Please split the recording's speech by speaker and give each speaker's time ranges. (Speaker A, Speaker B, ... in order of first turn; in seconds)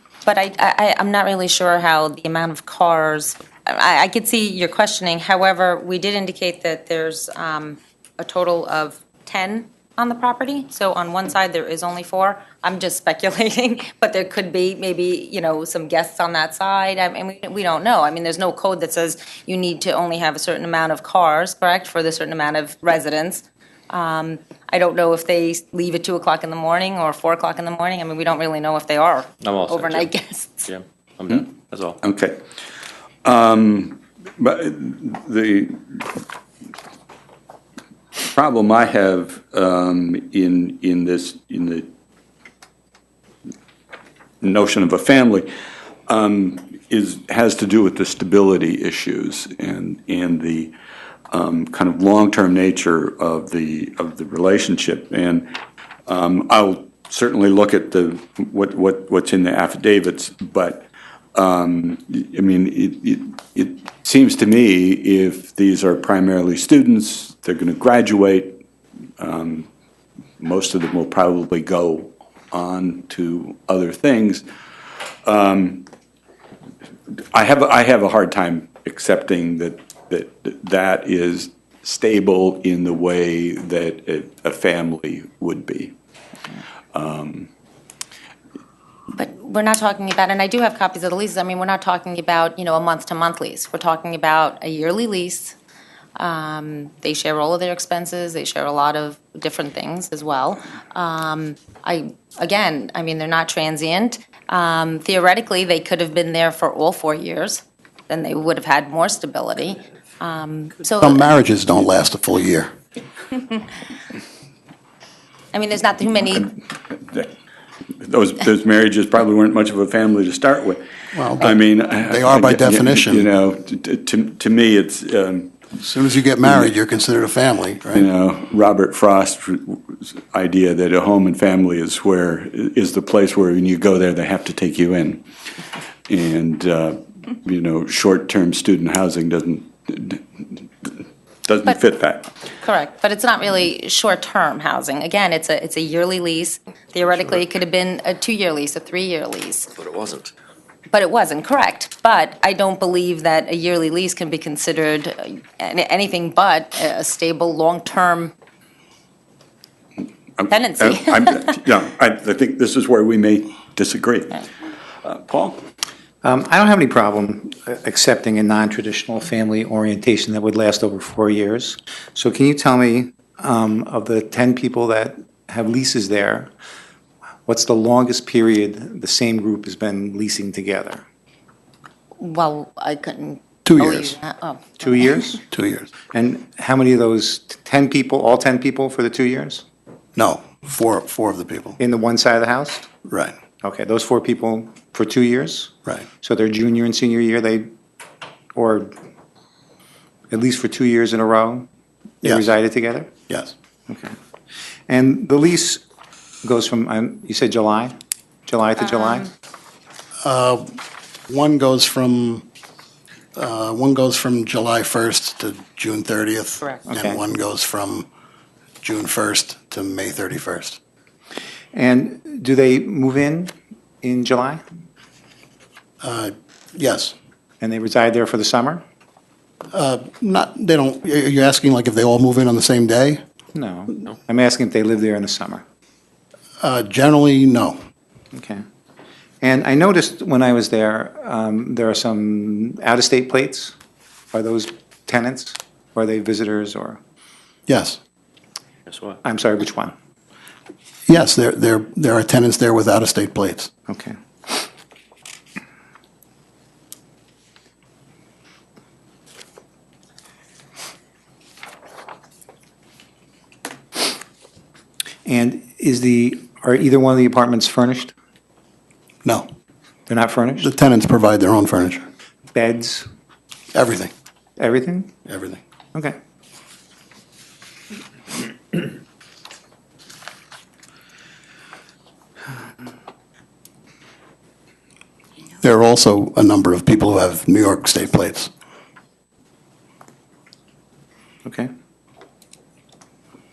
Speaker A: 0.2-30.7, 89.1-95.5, 96.2-111.3, 115.5-116.5, 142.6-149.7, 150.9-158.3, 160.5-161.5, 182.2-185.3
Speaker B: 29.4-30.1, 30.6-32.0, 149.8-150.3, 248.9-249.2
Speaker C: 32.0-32.4, 33.2-36.2, 38.2-41.9, 44.4-45.5, 46.1-50.7, 51.3-68.6, 69.2-69.7, 70.4-74.4, 74.9-75.9, 77.3-85.9, 86.9-87.5, 116.9-117.3, 118.0-120.8, 121.4-125.5, 126.4-126.7, 127.9-135.2, 136.1-140.9, 141.4-142.3, 160.4-164.5, 165.0-165.6
Speaker D: 111.0-112.7, 121.1-123.3, 125.8-128.1, 183.6-184.2, 185.5-185.9, 190.2-191.8, 193.1-193.3, 203.3-203.5, 210.2-212.4, 213.3-218.1, 218.8-220.8, 226.0-227.1, 229.7-233.2, 236.6-237.8, 247.7-248.0, 251.1-253.7, 270.6-272.0, 273.7-274.1, 275.2-275.6, 285.6-288.5
Speaker E: 166.2-176.5, 177.4-181.0, 184.8-185.4, 186.1-189.6, 191.8-192.9, 193.6-197.7, 198.5-198.9, 200.3-201.7, 202.2-203.1, 203.9-204.1, 204.9-205.8, 206.4-207.9, 208.5-209.3, 216.9-217.2, 221.7-224.6, 227.6-228.8, 233.5-235.6, 238.3-238.6, 239.4-243.7, 244.3-247.0, 249.2-249.9, 253.9-254.2, 265.2-268.1, 270.1-270.7, 272.5-273.1, 274.6-275.1